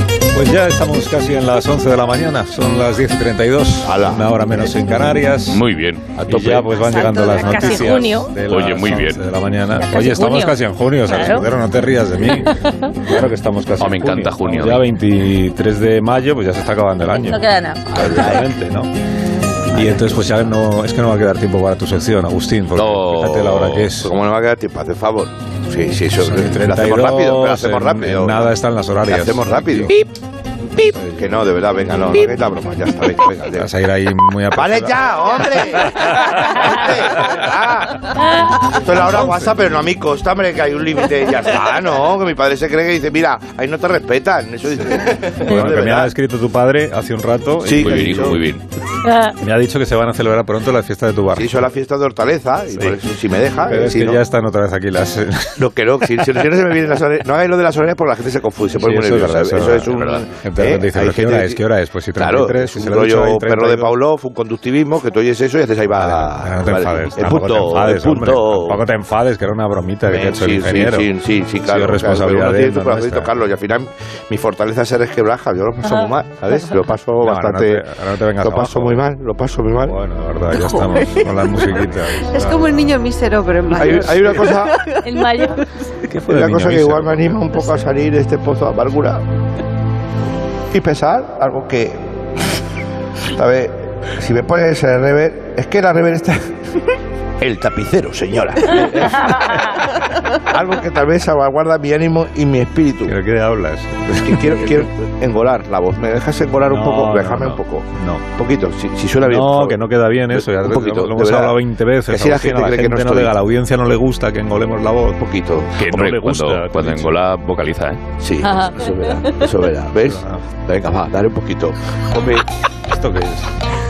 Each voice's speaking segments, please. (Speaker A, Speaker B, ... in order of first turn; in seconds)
Speaker A: 0.3-18.9, 19.7-24.1, 26.1-29.9, 30.8-31.4, 33.5-35.0, 39.0-39.5, 45.4-48.4, 49.4-51.6, 52.7-53.0, 53.6-55.6, 58.8-64.0, 65.9-71.1, 71.6-73.3, 77.2-79.0, 79.8-82.8, 83.8-84.1, 86.0-87.5, 103.0-104.7, 106.6-108.2, 109.2-115.2, 115.8-117.1, 120.0-120.4, 122.9-123.5
Speaker B: 3.8-4.3, 17.9-18.5, 19.7-20.3, 24.0-28.5, 29.1-30.0, 30.9-33.7, 34.5-38.1, 38.7-46.1, 47.6-48.4, 51.3-54.2, 55.6-61.6, 62.2-68.8, 70.1-77.8, 78.4-80.0, 83.7-84.8, 86.3-89.2, 90.7-92.1, 93.3-96.5, 97.4-99.8, 100.4-103.1, 104.2-111.5, 112.1-113.3, 115.2-115.7, 118.2-122.4
Speaker C: 5.5-6.6, 8.4-9.2, 13.8-14.9, 22.7-23.9, 47.8-48.6, 59.9-60.2, 115.8-118.0
Speaker D: 6.6-8.4, 9.9-10.6, 11.1-11.4, 17.2-17.8, 49.1-49.3, 85.0-85.6, 118.4-118.8
Speaker E: 80.5-85.2